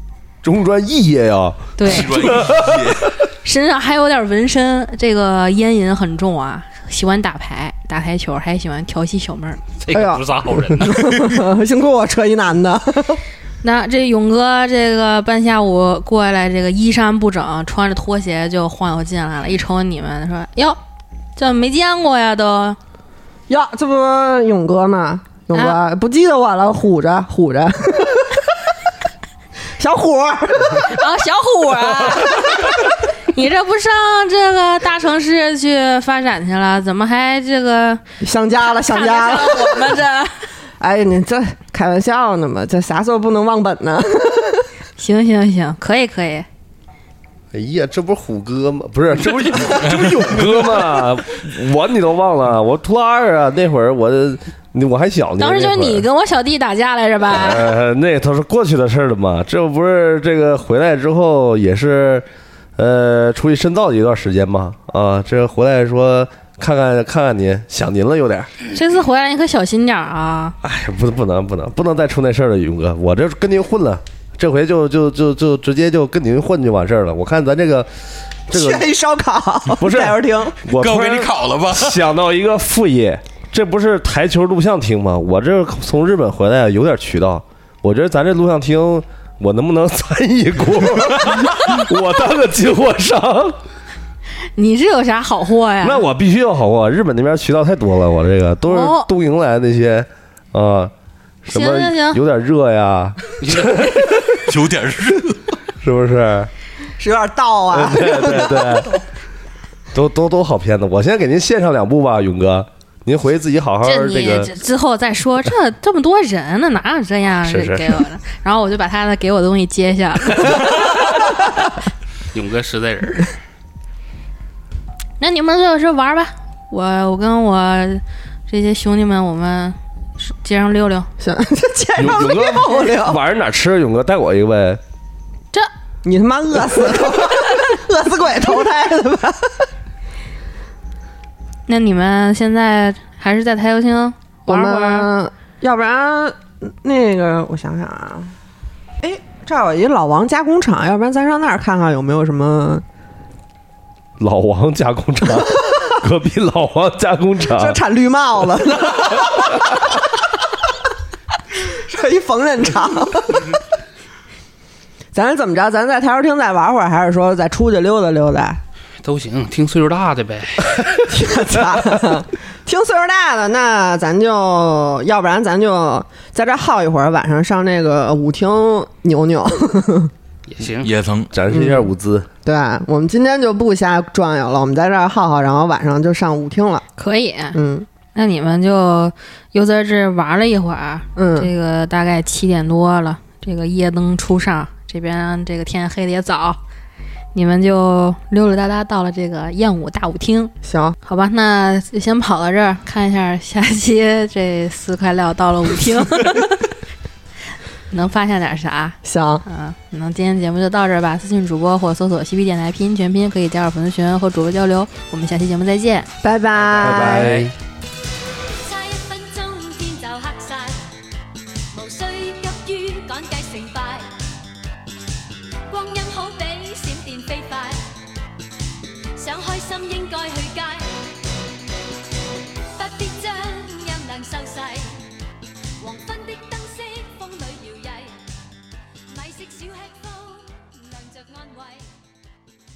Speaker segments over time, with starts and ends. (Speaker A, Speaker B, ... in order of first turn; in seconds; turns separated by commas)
Speaker A: 0.4-3.0, Speaker B: 1.8-2.4, Speaker C: 1.8-3.1, Speaker B: 3.4-9.6, Speaker D: 9.8-11.3, Speaker E: 9.9-13.2, Speaker B: 13.6-20.8, Speaker B: 21.4-22.8, Speaker E: 23.5-28.5, Speaker B: 25.5-25.8, Speaker E: 29.8-30.9, Speaker B: 30.8-38.0, Speaker E: 38.2-40.0, Speaker B: 38.6-40.5, Speaker E: 40.8-44.7, Speaker B: 45.0-46.5, Speaker A: 47.5-56.0, Speaker B: 55.4-57.7, Speaker A: 57.3-62.2, Speaker A: 62.8-68.5, Speaker B: 68.7-70.5, Speaker A: 70.6-77.9, Speaker A: 78.5-78.9, Speaker E: 78.5-80.5, Speaker A: 79.8-93.6, Speaker C: 80.7-82.0, Speaker B: 94.5-96.0, Speaker A: 95.8-100.9, Speaker B: 98.6-99.1, Speaker A: 101.4-104.0, Speaker B: 101.5-102.2, Speaker D: 103.4-104.2, Speaker C: 104.3-105.4, Speaker A: 105.8-106.5, Speaker E: 107.0-108.8, Speaker A: 107.7-109.0, Speaker A: 109.9-114.5, Speaker B: 113.8-120.8, Speaker A: 117.4-118.0, Speaker D: 122.3-123.3, Speaker B: 125.2-131.1, Speaker E: 131.2-133.2, Speaker A: 132.0-134.8, Speaker E: 136.0-139.7, Speaker B: 141.7-145.1, Speaker E: 144.5-148.3, Speaker E: 149.0-152.8, Speaker A: 154.2-157.8, Speaker E: 157.6-159.8, Speaker E: 161.6-163.6, Speaker E: 165.1-168.6, Speaker D: 169.0-171.0, Speaker E: 171.1-180.1, Speaker D: 180.5-180.9, Speaker C: 180.8-181.3, Speaker A: 181.3-182.3, Speaker E: 181.5-181.9, Speaker E: 182.4-186.8, Speaker B: 187.0-187.6, Speaker E: 187.5-187.9, Speaker B: 188.1-196.6, Speaker E: 191.2-191.5, Speaker B: 197.3-200.5, Speaker E: 200.6-200.9, Speaker B: 201.0-206.7, Speaker B: 207.9-216.1, Speaker E: 209.0-209.4, Speaker E: 216.2-217.3, Speaker D: 216.7-217.5, Speaker A: 216.8-217.5, Speaker F: 218.6-220.8, Speaker F: 221.7-224.0, Speaker F: 225.7-227.8, Speaker F: 229.2-230.9, Speaker F: 232.8-235.0, Speaker F: 235.8-238.2, Speaker F: 239.1-241.9